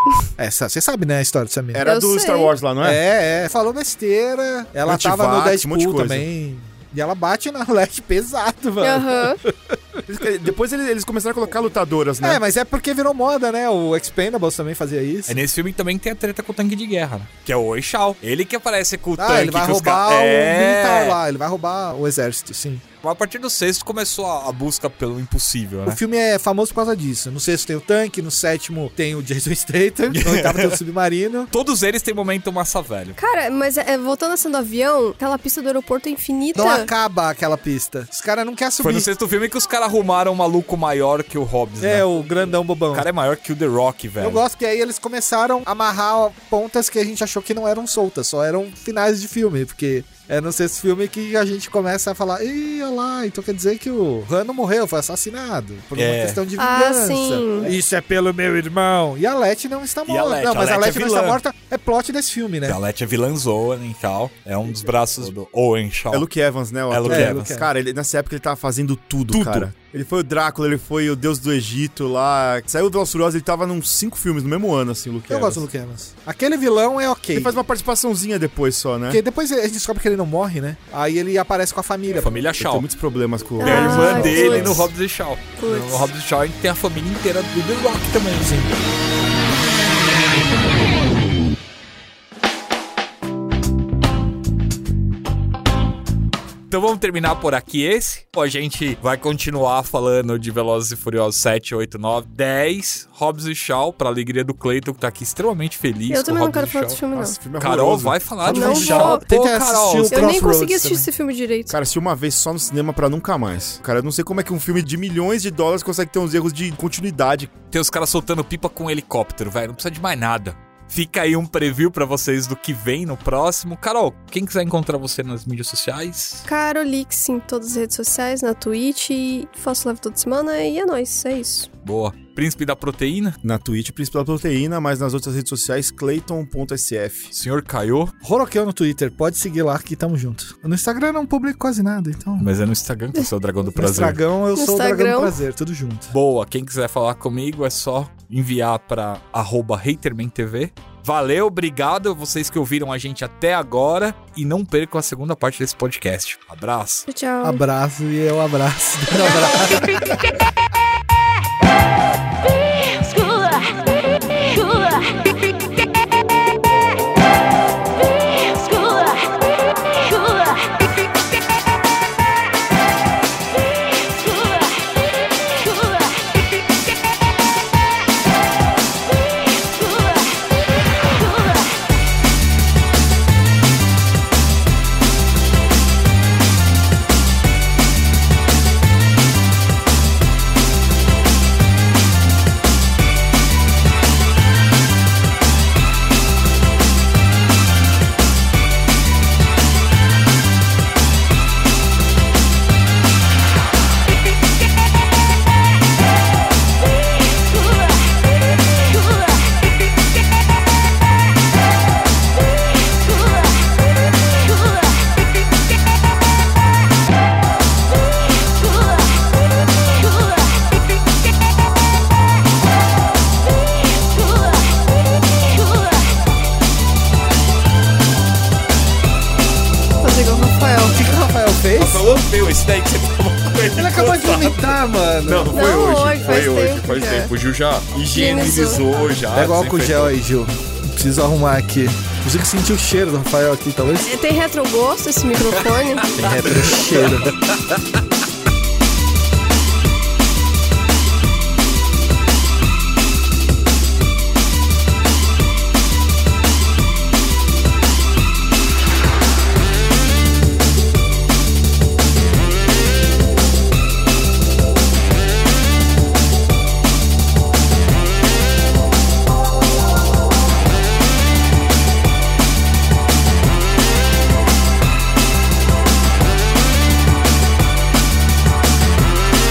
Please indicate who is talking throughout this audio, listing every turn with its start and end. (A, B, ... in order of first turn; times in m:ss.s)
0:00.3-0:01.9 A
0:01.7-0:03.0 B
0:01.8-0:02.5 C
0:02.8-0:10.0 A
0:04.9-0:06.3 B
0:08.8-0:09.4 C
0:10.1-0:12.4 B
0:12.2-0:15.4 A
0:15.3-0:21.2 D
0:19.2-0:22.8 A
0:23.0-0:26.0 D
0:25.9-0:31.5 A
0:30.1-0:30.8 D
0:31.5-0:33.2 D
0:33.2-0:36.9 C
0:36.6-0:39.1 A
0:38.8-0:42.1 D
0:41.8-0:43.1 A
0:42.9-0:44.4 D
0:44.2-1:02.8 A
0:56.0-0:56.4 D
0:56.6-0:57.7 C
1:00.1-1:01.4 D
1:02.7-1:06.3 D
1:06.1-1:15.6 B
1:06.9-1:07.6 D
1:07.1-1:07.7 A
1:09.3-1:09.7 D
1:15.3-1:17.6 A
1:17.3-1:19.2 B
1:19.1-1:22.3 A
1:22.1-1:22.9 D
1:22.6-1:24.9 B
1:23.6-1:24.9 C
1:23.6-1:28.7 D
1:25.6-1:26.1 C
1:28.4-1:28.8 A
1:36.7-1:50.4 D
1:46.1-1:47.4 C
1:47.1-1:49.1 B
1:48.5-1:49.2 C
1:48.6-1:51.1 A
1:50.1-1:51.8 C
1:51.7-1:57.5 B
1:57.7-2:06.5 D
2:06.5-2:11.7 C
2:11.8-2:13.4 D
2:13.4-2:17.3 B
2:17.3-2:18.1 D
2:18.2-2:22.5 A
2:22.4-2:24.2 D
2:23.8-2:26.1 A
2:24.6-2:25.4 C
2:26.1-2:37.1 D
2:37.1-2:37.6 C
2:37.4-2:40.4 A
3:50.0-3:51.0 C
3:50.9-3:52.1 A
3:51.8-4:00.1 D
3:53.8-3:55.6 A
3:55.5-3:57.3 C
3:58.1-3:58.8 C
3:59.3-4:04.1 A
4:04.0-4:06.1 C
4:05.4-4:07.8 D
4:06.1-4:07.3 A